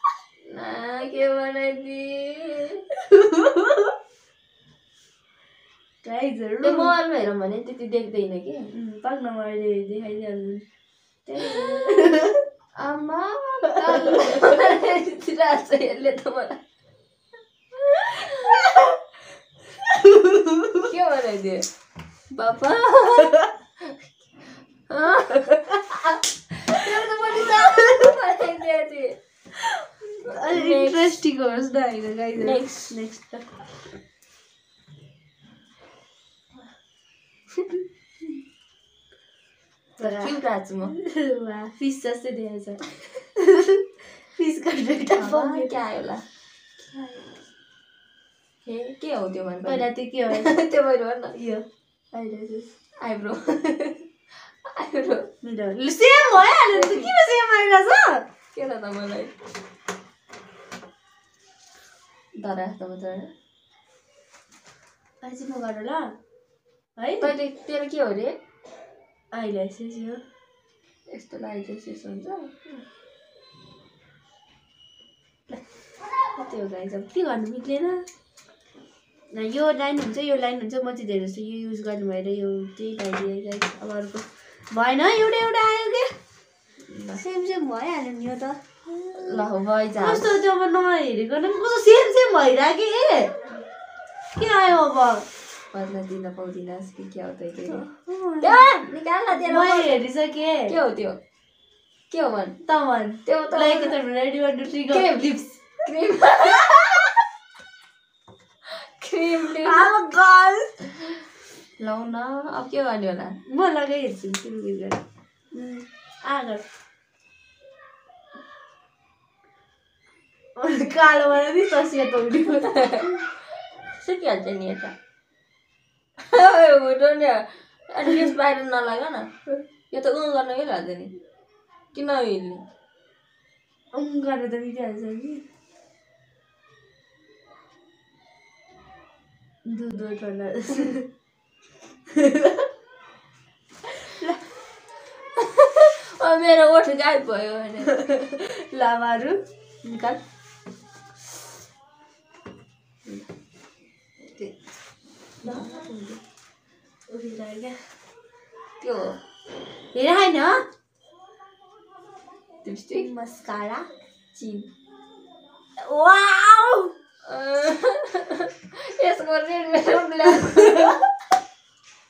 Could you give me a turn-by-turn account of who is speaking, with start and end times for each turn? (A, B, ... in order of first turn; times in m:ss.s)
0:00.5-0:02.8 A
0:03.1-0:03.9 B
0:06.0-0:06.9 B
0:06.6-0:08.7 A
0:08.7-0:10.6 B
0:11.2-0:12.4 B
0:11.6-0:12.1 A
0:12.8-0:16.6 A
0:14.0-0:14.5 B
0:17.7-0:18.9 A
0:19.9-0:20.8 B
0:20.8-0:21.7 A
0:22.3-0:24.0 A
0:24.9-0:29.2 A
0:27.4-0:27.9 B
0:30.2-0:31.2 A
0:30.2-0:33.6 B
0:32.4-0:33.0 A
0:40.0-0:40.9 A
0:40.0-0:42.8 B
0:43.4-0:45.8 B
0:45.1-0:46.2 A
0:46.8-0:47.3 A
0:48.6-0:51.4 A
0:49.6-0:50.5 B
0:51.3-0:52.7 B
0:53.0-0:55.3 A
0:55.4-0:58.2 B
0:56.3-0:57.2 A
0:58.5-0:59.3 A
1:02.4-1:03.3 A
1:05.2-1:06.1 B
1:07.0-1:07.3 B
1:07.2-1:08.4 A
1:09.3-1:10.2 B
1:11.1-1:12.5 A
1:16.4-1:18.1 B
1:19.3-1:26.1 B
1:26.9-1:27.2 A
1:27.2-1:29.4 B
1:29.1-1:30.4 A
1:30.0-1:33.3 B
1:34.3-1:35.2 B
1:35.7-1:37.8 A
1:37.6-1:38.6 B
1:38.4-1:40.0 A
1:39.4-1:40.7 B
1:40.7-1:41.2 A
1:42.1-1:42.6 A
1:42.6-1:45.2 B
1:43.2-1:44.0 A
1:44.9-1:47.2 A
1:48.6-1:49.9 A
1:49.6-1:50.8 B
1:51.8-1:53.4 A
1:53.5-1:55.0 B
1:55.5-1:56.6 B
2:00.6-2:02.7 B
2:02.6-2:03.2 A
2:03.9-2:04.9 A
2:06.2-2:11.2 A
2:11.9-2:12.6 A
2:13.9-2:15.4 B
2:19.6-2:21.0 B
2:22.1-2:22.6 B
2:25.4-2:28.0 A
2:27.8-2:29.4 B
2:29.8-2:30.2 A
2:35.4-2:36.0 B
2:35.4-2:36.2 A
2:37.1-2:37.8 B
2:38.8-2:39.2 A
2:39.9-2:40.6 B
2:42.6-2:43.1 A
2:42.9-2:43.9 B
2:44.3-2:44.7 A
2:45.8-2:46.9 B
2:47.2-2:51.1 A